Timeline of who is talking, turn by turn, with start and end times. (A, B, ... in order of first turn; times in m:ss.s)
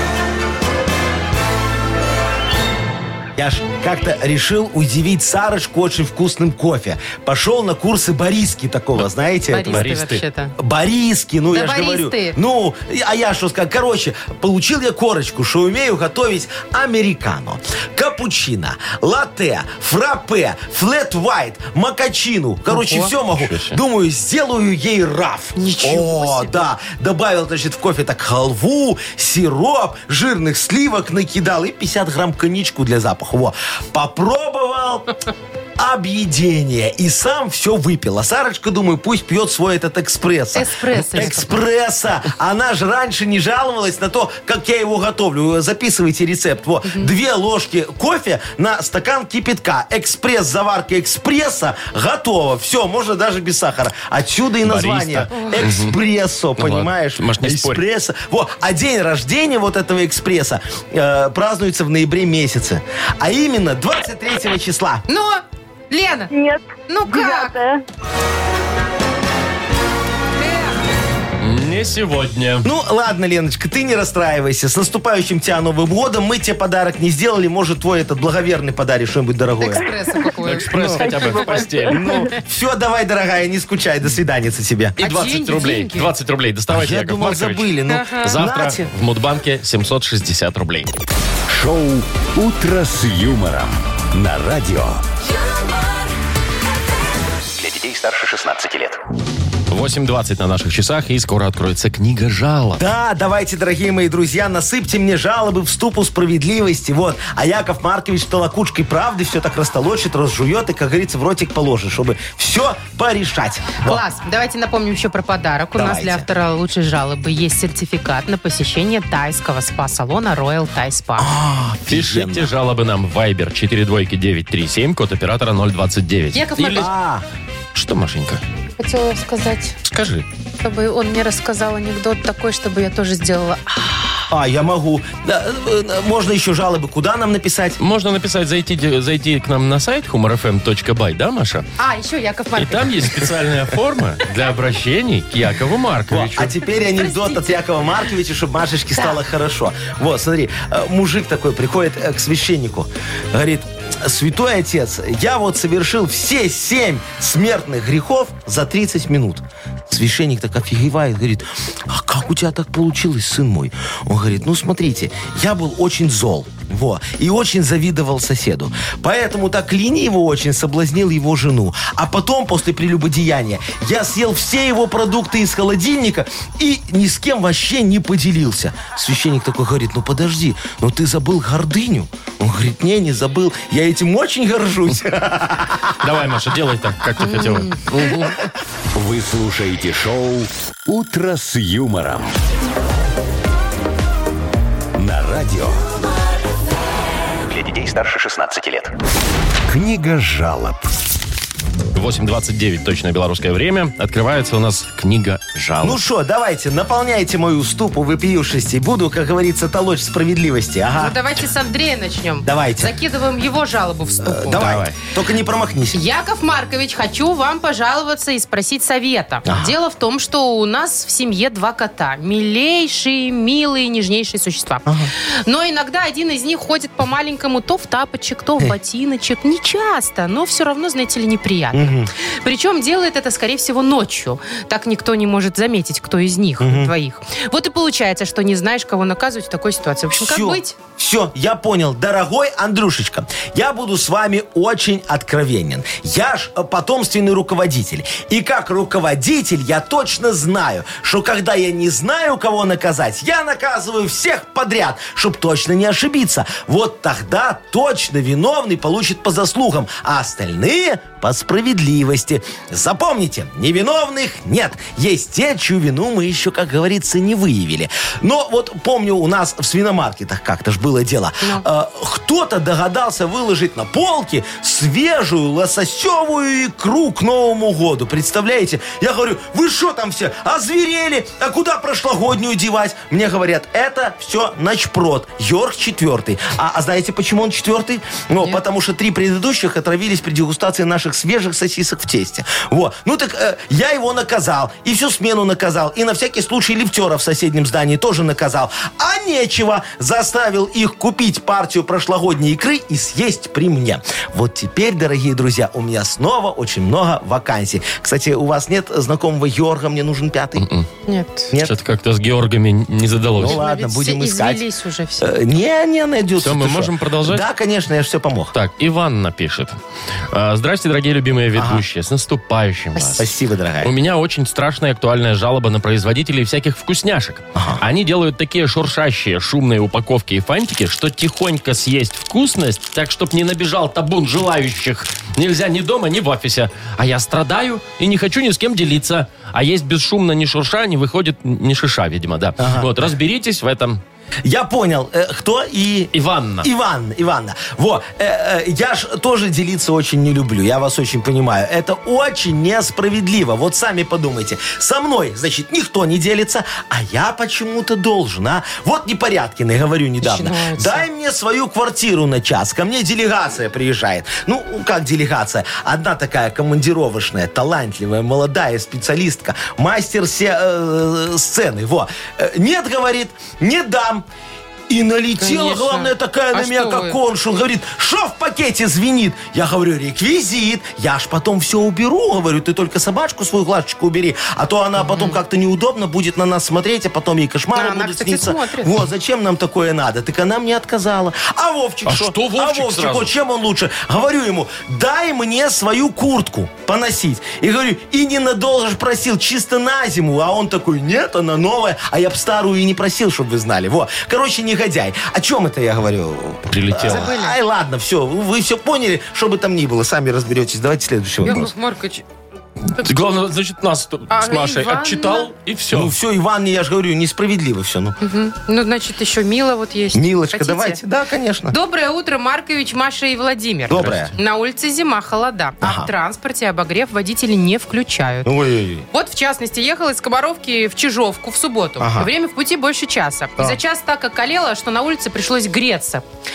0:03.4-0:09.9 A
0:09.5-0:10.5 B
0:09.7-0:10.2 C
0:10.6-0:35.1 A
0:11.5-0:12.4 B
0:22.7-0:23.1 B
0:23.3-0:23.8 C
0:25.6-0:26.7 B
0:35.8-1:05.0 A
0:40.6-0:41.6 B
0:54.6-0:56.0 C
0:56.6-0:57.8 C
1:05.1-1:06.3 B
1:06.3-1:07.8 D
1:06.9-1:07.6 B
1:10.4-1:10.8 B
1:11.4-1:12.7 C
1:12.6-1:19.9 A
1:19.6-1:21.4 B
1:20.4-1:22.2 C
1:20.7-1:21.0 A
1:21.1-1:21.5 D
1:21.9-1:25.1 A
1:25.0-1:26.1 B
1:25.0-1:27.7 C
1:26.7-1:28.9 A
1:27.9-1:28.3 B
1:28.2-1:30.9 C
1:31.5-1:35.0 E
1:37.6-1:39.0 F
1:39.7-1:42.8 C
1:42.8-1:54.0 A
1:53.8-2:01.3 B
1:55.8-1:56.3 A
2:01.2-2:02.5 A
2:01.9-2:06.9 C
2:06.3-2:06.9 B
2:06.8-2:07.2 A
2:07.7-2:08.4 C
2:08.8-2:09.8 B
2:09.8-2:10.3 C
2:10.6-2:14.3 B
2:14.3-2:17.8 A
2:17.8-2:21.7 C
2:21.8-2:23.1 B
2:22.6-2:26.5 C
2:26.1-3:06.0 A
2:26.8-2:27.6 B
3:06.0-3:08.4 C
3:07.2-3:07.8 B
3:08.9-3:12.4 E
3:15.0-3:15.8 E
3:17.5-3:19.0 F
3:19.7-3:20.9 E
3:21.9-3:26.0 C
3:25.8-3:31.2 A
3:31.0-3:34.6 B
3:32.4-3:33.0 A
3:34.2-3:36.0 A
3:34.5-3:34.9 C
3:35.9-4:00.8 B
3:39.5-3:39.8 A
3:44.9-3:45.1 A
3:51.7-3:52.1 A
3:56.6-3:56.9 A
4:00.2-5:10.7 A
5:10.6-5:10.9 C
5:11.1-5:11.5 B
5:11.6-5:13.6 C
5:13.4-5:14.7 A
5:13.4-5:15.3 B
5:15.2-5:18.5 A
5:16.4-5:17.5 C
5:18.5-5:19.8 C
5:20.3-5:23.2 C
5:21.6-5:21.8 A
5:23.0-5:23.2 B
5:23.2-5:23.9 A
5:23.8-5:44.0 C
5:27.6-5:27.8 A
5:42.6-5:43.1 A
5:44.4-6:14.3 A
5:46.1-5:46.7 C
6:00.2-6:01.1 B
6:14.9-6:51.7 A
6:15.4-6:17.2 B
6:25.0-6:25.4 B
6:27.7-6:29.0 B
6:32.1-6:33.3 C
6:46.7-6:47.3 C
6:47.1-6:47.6 B
6:51.4-6:52.2 B
6:53.0-6:56.1 C
6:54.3-6:55.5 B
6:55.9-6:58.2 A
6:58.2-7:01.0 B
7:00.1-7:01.8 A
7:01.7-7:08.5 B
7:03.9-7:04.3 A
7:04.0-7:04.3 C
7:05.8-7:06.1 A
7:08.4-7:09.1 A
7:09.1-7:16.2 B
7:12.0-7:12.3 A